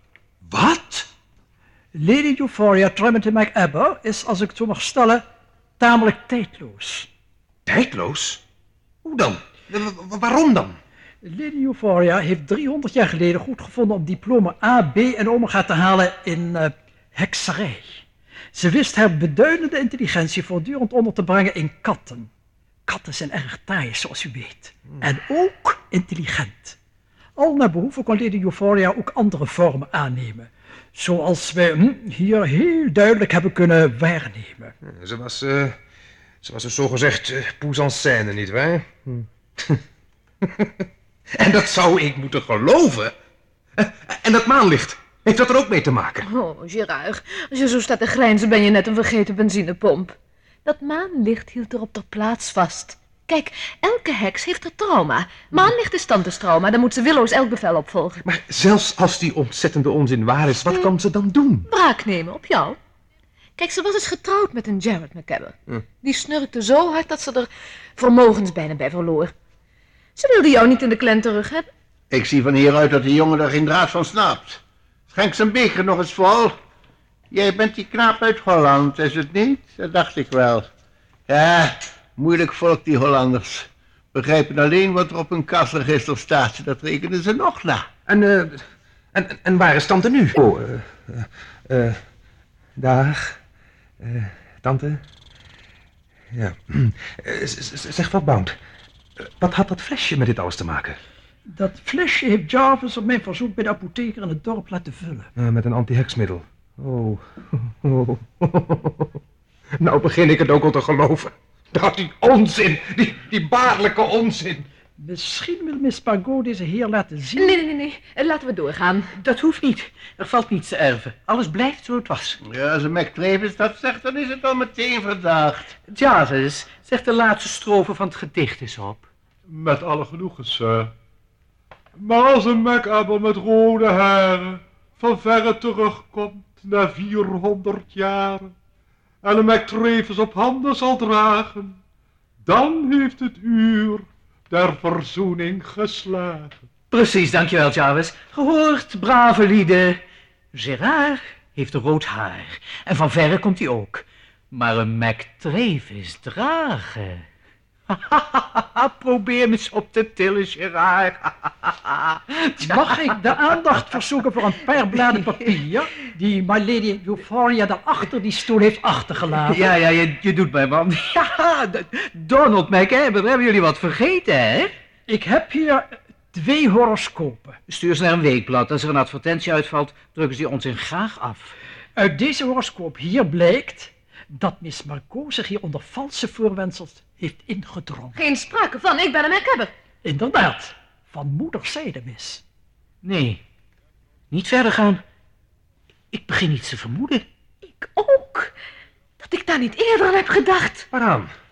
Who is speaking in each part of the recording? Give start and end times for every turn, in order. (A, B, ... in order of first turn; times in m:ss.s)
0:00.5-0:01.0 A
0:01.9-0:05.2 B
0:05.8-0:07.1 B
0:07.6-0:08.4 A
0:09.0-0:10.8 A
0:11.2-0:18.0 B
0:18.5-0:22.3 B
0:22.8-0:26.8 B
0:27.4-0:34.7 B
0:34.8-0:35.7 A
0:36.4-0:39.8 A
0:41.4-0:43.1 A
0:43.8-0:46.2 A
0:46.2-0:58.2 C
0:58.2-1:01.7 A
1:01.7-1:02.8 C
1:03.6-1:09.3 C
1:10.2-1:11.7 C
1:12.1-1:16.5 D
1:17.3-1:20.6 D
1:21.3-1:27.8 D
1:28.1-1:28.6 A
1:29.1-1:32.0 A
1:32.8-1:33.4 A
1:34.0-1:35.0 A
1:36.3-1:38.5 A
1:39.4-1:41.0 A
1:41.5-1:45.3 B
1:45.4-1:49.1 A
1:49.8-1:54.6 A
1:55.0-1:57.6 B
1:57.4-1:59.1 C
1:59.2-2:02.4 E
2:02.4-2:05.7 D
2:05.9-2:09.0 E
2:09.5-2:10.9 F
2:12.0-2:18.5 F
2:19.2-2:21.8 F
2:22.4-2:26.6 F
2:26.9-2:30.0 E
2:30.5-2:37.2 E
2:37.9-2:43.2 E
2:42.6-2:49.6 B
2:49.4-2:54.7 E
2:55.1-2:57.6 B
2:57.7-3:01.5 E
3:02.0-3:08.2 B
3:08.1-3:09.7 C
3:10.0-3:12.4 B
3:13.0-3:13.4 E
3:14.3-3:15.0 E
3:16.1-3:17.3 E
3:17.6-3:18.5 C
3:19.2-3:20.9 C
3:20.9-3:21.3 A